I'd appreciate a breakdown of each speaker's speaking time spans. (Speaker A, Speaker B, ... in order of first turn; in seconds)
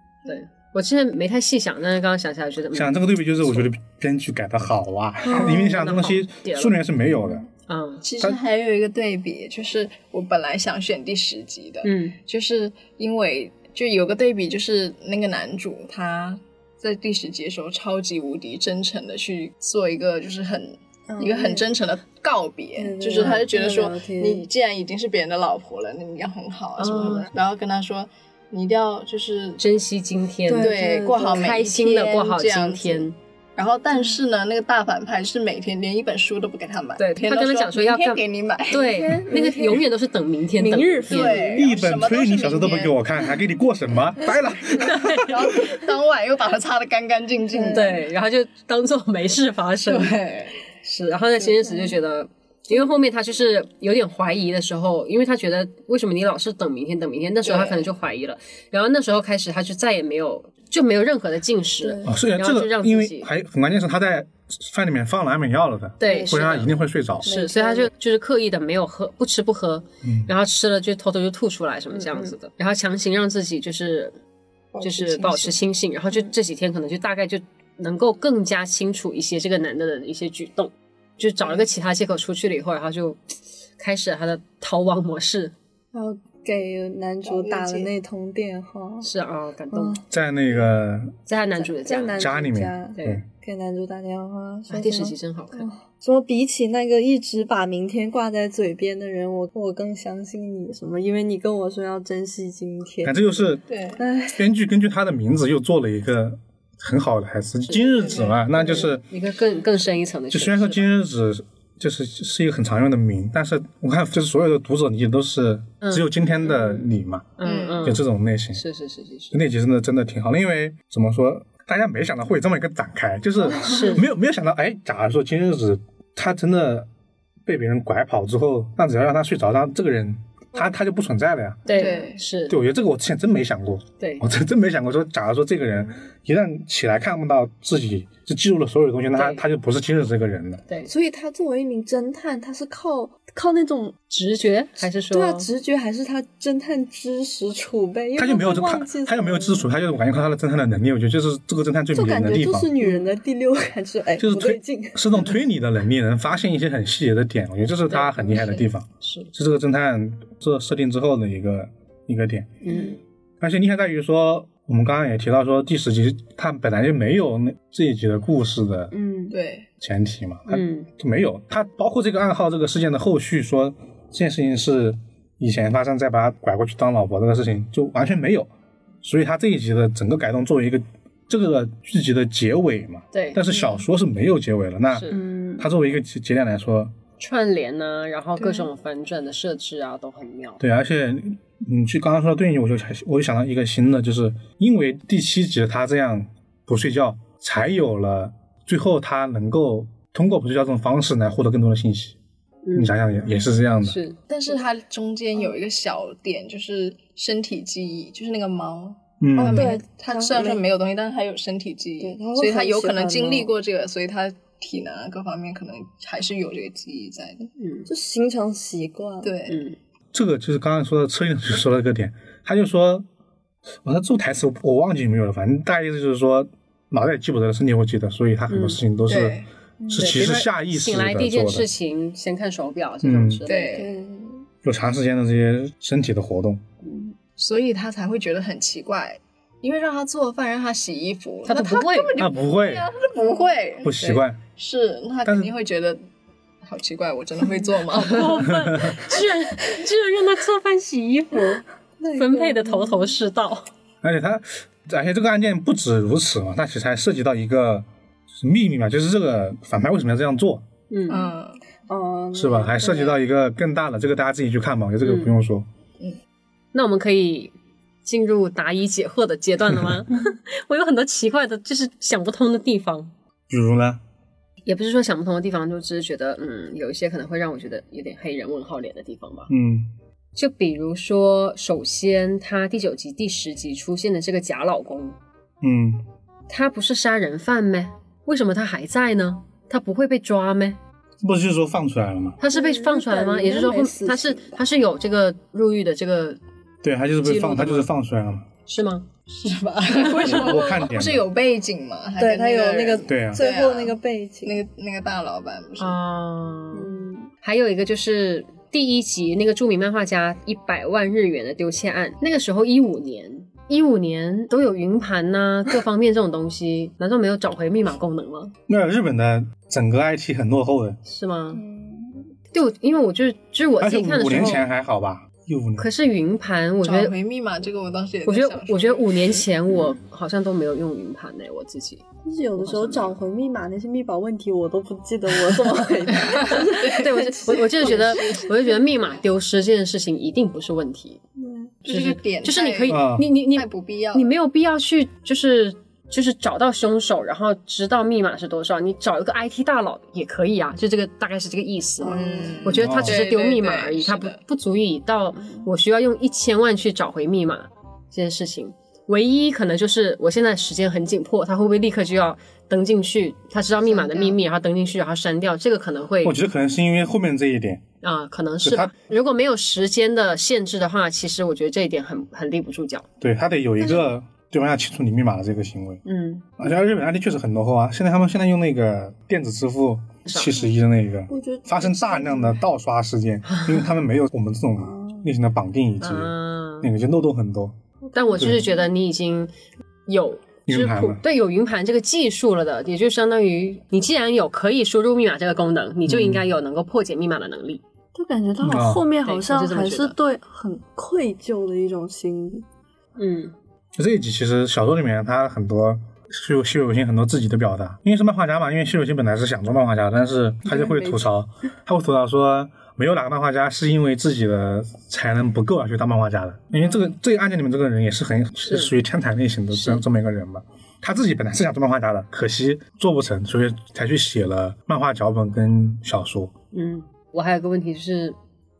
Speaker A: 0.3-3.7, 5.3-6.8, 7.7-8.1, 11.8-12.2, 23.2-23.4, 26.8-27.3, 29.6-33.1, 37.0-41.5, 44.8-45.3, 47.7-50.1, 50.8-63.3, 66.0-66.7, 67.2-74.2, 74.8-85.5, 89.0-90.0, 91.3-92.2, 93.0-93.2, 94.7-95.7, 107.7-110.8, 115.8-116.5, 117.4-118.0, 118.5-119.4, 123.7-124.1, 131.7-132.6, 134.0-134.3, 139.1-139.4, 144.1-145.5, 157.9-159.3, 162.6-163.0, 170.5-170.9, 183.1-183.5, 184.9-185.2, 187.2-190.6, 202.7-203.0, 203.8-204.2, 217.6-217.9, 219.5-219.8, 228.5-228.8, 229.9-233.8, 241.4-242.3, 247.9-251.6, 252.2-253.7, 260.9-261.3, 265.0-265.3, 266.7-267.5, 268.1-273.1, 274.7-279.5, 280.4-285.2, 286.5-290.8, 292.4-296.4, 297.2-297.9, 298.7-299.1, 300.0-300.6, 305.8-318.6, 321.1-321.6, 322.5-324.7, 325.8-327.1, 328.3-332.1, 332.6-333.1, 336.3-341.2, 341.9-366.4, 368.0-373.1, 376.1-376.4, 380.3-380.6, 386.0-386.9, 388.1-389.5, 390.1-397.8, 399.2-400.1, 403.2-403.5, 418.7-418.9, 419.7-420.0, 426.7-428.4
Speaker B: 2.7-7.5, 41.5-45.6, 62.0-67.3, 70.0-70.3, 90.1-91.2, 92.2-93.2, 103.0-103.6, 104.3-109.1, 110.3-117.3, 117.8-118.6, 119.3-126.9, 127.5-131.7, 132.5-140.7, 148.2-152.8, 154.2-162.6, 163.4-168.9, 169.8-178.5, 179.0-186.9, 190.6-202.2, 202.7-204.0, 209.2-209.7, 220.1-223.1, 223.8-231.7, 233.0-233.4, 234.6-236.6, 242.2-242.9, 243.8-244.4, 245.2-245.5, 248.4-249.0, 254.0-257.9, 258.4-260.6, 262.3-265.7, 273.5-274.0, 279.5-279.9, 285.6-286.0, 291.2-292.4, 296.8-298.5, 300.2-301.3, 303.1-303.4, 318.7-321.0, 323.8-325.9, 342.9-343.3, 352.8-353.2, 366.2-367.8, 368.6-368.9, 373.2-376.0, 376.6-387.8, 390.7-391.2, 396.1-396.4, 398.6-399.1, 404.0-426.5
Speaker C: 5.3-5.7, 21.1-21.6, 22.8-24.5, 30.5-31.6, 38.7-39.9, 40.6-41.7, 47.5-48.0, 61.8-62.1, 66.0-66.5, 67.2-67.9, 71.9-72.3, 85.9-89.1, 89.7-90.1, 91.6-103.2, 104.0-104.4, 123.6-123.9, 131.7-132.0, 140.8-143.9, 145.1-149.7, 151.9-155.1, 162.7-163.0, 168.9-169.4, 185.1-185.7, 188.4-188.7, 209.4-210.6, 212.0-213.5, 217.9-219.3, 229.8-230.3, 233.7-234.3, 252.0-253.2, 261.9-263.2, 292.5-294.6, 302.2-304.6, 306.7-307.3, 321.5-322.2, 332.2-338.4, 341.4-341.8, 352.0-352.8, 381.3-382.6, 384.8-385.3, 398.1-402.7, 410.7-411.2
Speaker D: 8.0-29.6, 30.6-39.2, 41.1-43.0, 45.1-48.0, 49.9-50.6, 51.4-51.7, 57.4-57.9, 74.7-75.6, 87.2-87.9, 103.7-104.0, 108.0-108.4, 117.4-117.9, 131.7-132.2, 169.3-169.7, 204.3-217.5, 219.2-219.6, 229.1-229.5, 233.5-234.0, 237.4-243.9, 244.6-246.0, 246.6-248.5, 261.1-261.6, 299.3-306.0, 326.8-329.5, 336.3-338.5, 341.8-344.3, 352.0-354.4, 363.9-364.4